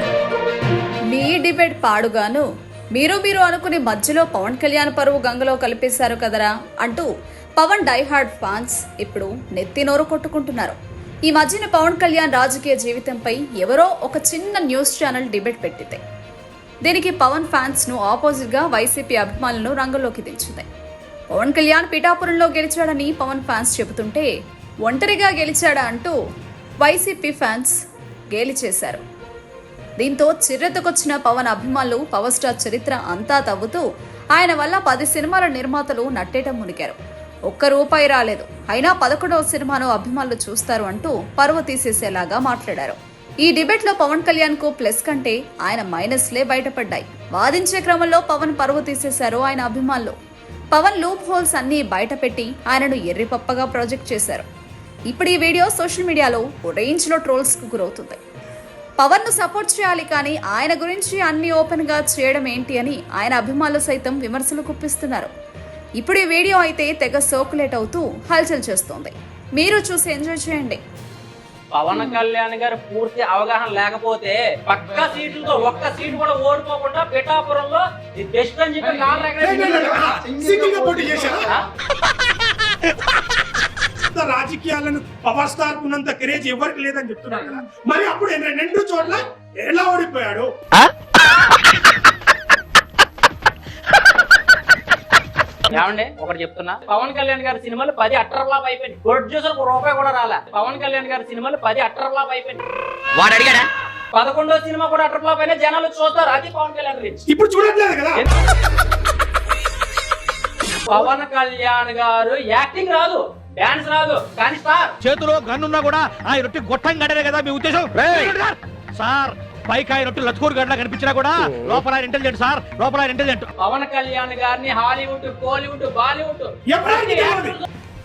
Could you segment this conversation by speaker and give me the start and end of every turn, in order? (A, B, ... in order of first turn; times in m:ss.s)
0:01.1-0:02.4 A
0:03.0-0:07.1 A
0:07.6-0:16.0 A
0:16.9-0:20.7 A
0:21.3-0:24.3 A
0:24.9-0:26.1 A
0:26.8-0:27.8 A
0:28.3-0:29.0 A
0:30.0-0:33.8 A
0:34.4-0:37.0 A
0:37.5-0:50.2 A
0:50.7-0:54.4 A
0:55.1-0:58.2 A
0:59.0-1:05.3 A
1:06.0-1:10.8 A
1:11.7-1:19.7 B
1:19.4-1:21.5 C
1:19.6-1:21.1 D
1:24.1-1:30.5 C
1:35.7-1:42.6 B
1:43.2-1:43.6 D
1:44.1-1:47.2 B
1:47.3-1:48.2 C
1:50.9-1:54.9 B
1:55.0-2:03.5 E
2:03.6-2:07.6 B
2:06.7-2:07.6 C